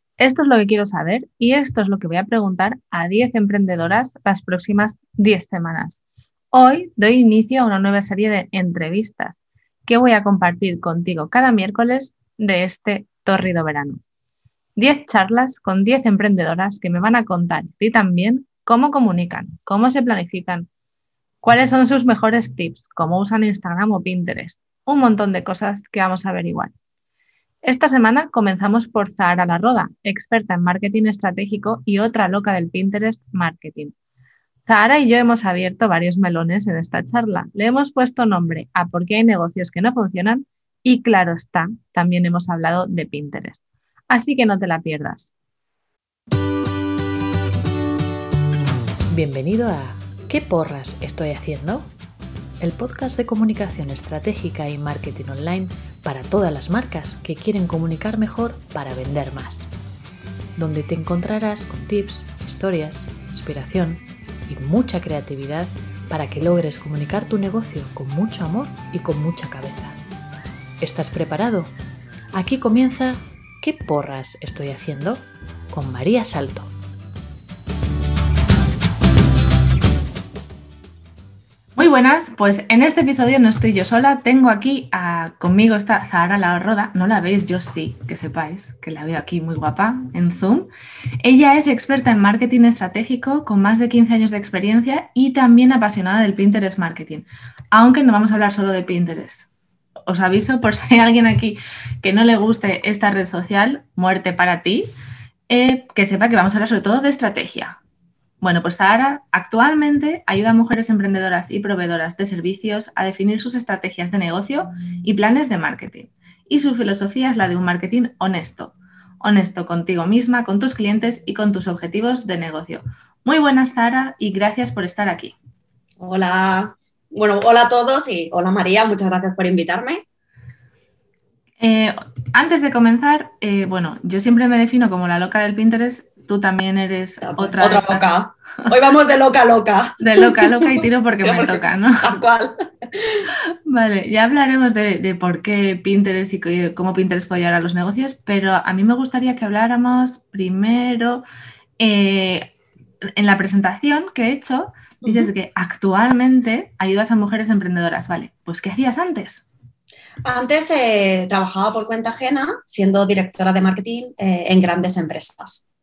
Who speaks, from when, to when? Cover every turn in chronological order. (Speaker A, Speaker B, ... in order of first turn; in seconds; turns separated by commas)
Speaker A: 0.2-6.0, Speaker A: 6.5-14.0, Speaker A: 14.8-20.7, Speaker A: 21.4-26.7, Speaker A: 27.6-33.9, Speaker A: 34.7-45.3, Speaker B: 49.1-51.9, Speaker B: 52.6-59.7, Speaker B: 60.6-70.0, Speaker B: 70.8-71.7, Speaker B: 72.3-76.7, Speaker A: 81.8-90.7, Speaker A: 91.2-99.5, Speaker A: 100.1-104.9, Speaker A: 105.5-107.8, Speaker A: 108.4-125.3, Speaker C: 126.0-130.0, Speaker A: 131.6-138.2, Speaker C: 137.2-143.3, Speaker A: 140.0-142.1, Speaker A: 143.7-151.2, Speaker A: 151.8-152.5, Speaker A: 153.2-159.4, Speaker C: 155.0-155.3, Speaker C: 160.2-165.7